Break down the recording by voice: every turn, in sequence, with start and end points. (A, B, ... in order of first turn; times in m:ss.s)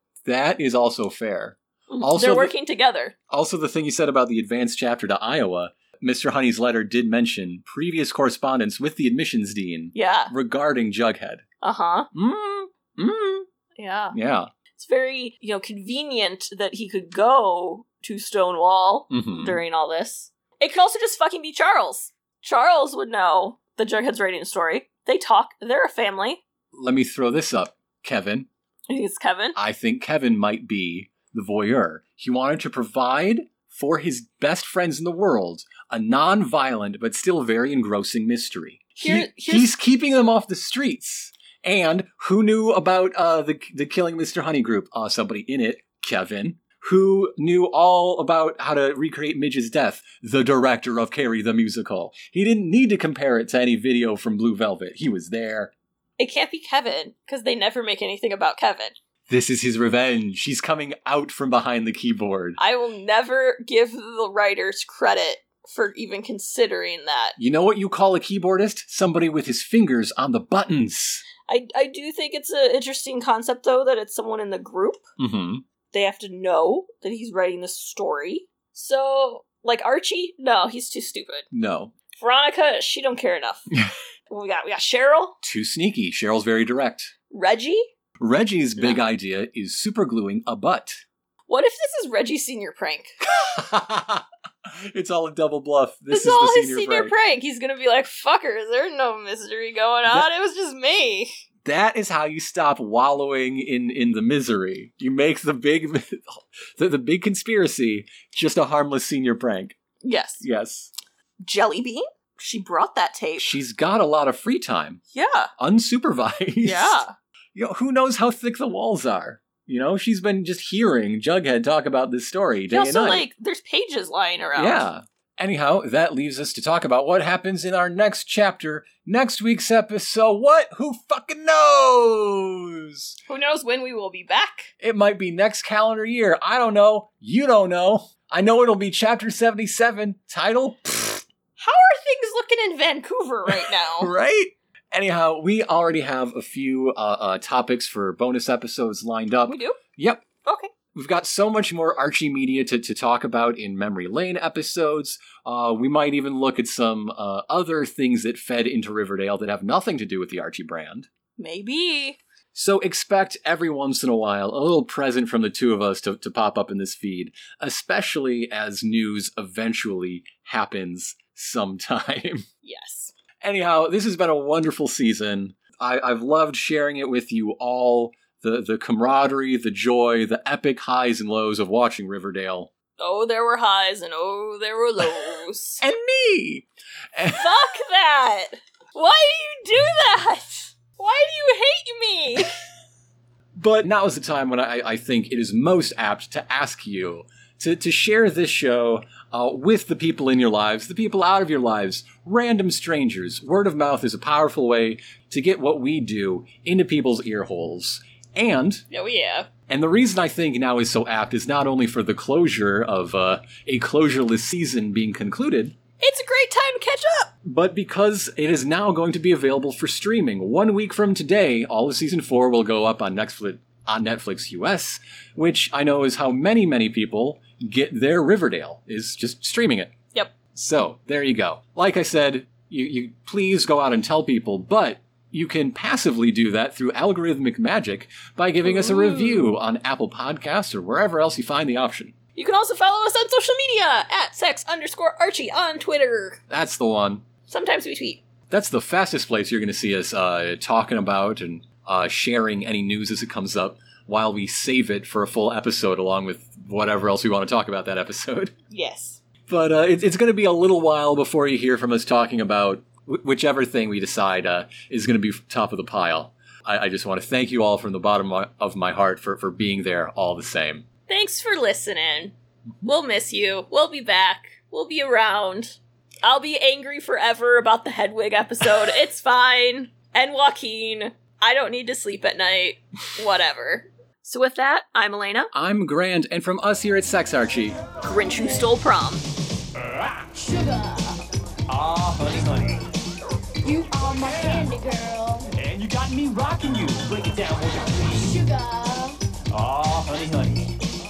0:00.2-0:02.5 A
0:01.9-0:03.2 B
0:03.3-0:11.4 A
0:09.9-0:10.3 B
0:11.6-0:12.1 B
0:12.1-0:13.5 A
0:13.8-0:14.2 B
0:14.1-0:14.5 A
0:14.8-0:26.4 B
0:19.1-0:19.6 A
0:26.7-0:28.5 A
0:28.9-0:29.6 B
0:29.6-0:55.7 A
0:39.0-0:39.8 B
0:56.2-0:58.9 B
0:59.3-1:02.6 A
1:02.6-1:07.4 B
1:07.4-1:11.2 A
1:11.5-1:15.0 B
1:15.2-1:15.6 A
1:15.9-1:21.5 B
1:21.5-1:21.9 A
1:22.2-1:23.7 B
1:24.3-1:25.4 B
1:25.4-1:27.1 A
1:27.3-1:27.9 B
1:28.2-1:31.0 A
1:31.5-1:33.2 B
1:33.2-1:37.1 A
1:36.1-1:41.3 B
1:41.6-1:49.8 A
1:50.0-1:50.4 B
1:50.4-1:50.9 A
1:51.4-1:53.5 B
1:53.4-1:55.0 A
1:55.1-1:55.5 B
1:55.6-1:57.0 A
1:56.6-1:57.1 B
1:57.6-2:03.2 A
2:02.7-2:04.8 B
2:04.6-2:13.2 A
2:13.3-2:14.7 B
2:14.8-2:21.2 A
2:21.6-2:24.1 B
2:23.5-2:30.3 A
2:29.5-2:29.8 B
2:30.4-2:30.7 B
2:31.0-2:41.1 A
2:41.4-2:42.2 B
2:42.5-2:52.4 A
2:52.6-2:53.1 B
2:53.4-3:02.7 A
3:03.0-3:05.8 B
3:05.8-3:07.6 A
3:07.4-3:12.6 B
3:13.6-3:28.8 A
3:28.9-3:29.5 B
3:29.7-3:35.8 A
3:36.0-3:37.3 B
3:37.4-3:49.9 A
3:50.5-4:02.1 A
3:58.6-3:59.5 B
4:02.4-4:06.4 B
4:06.5-4:07.2 A
4:07.5-4:08.2 B
4:08.5-4:18.5 A
4:18.7-4:19.2 B
4:19.5-4:30.9 A
4:31.1-4:45.5 B
4:45.5-4:47.8 A
4:48.0-4:49.3 B
4:49.8-4:50.3 C
4:50.4-4:51.2 D
4:51.7-4:52.8 C
4:53.6-4:55.5 D
4:54.2-4:54.7 C
4:55.5-4:58.4 C
4:58.2-4:59.2 D
4:59.5-5:00.8 C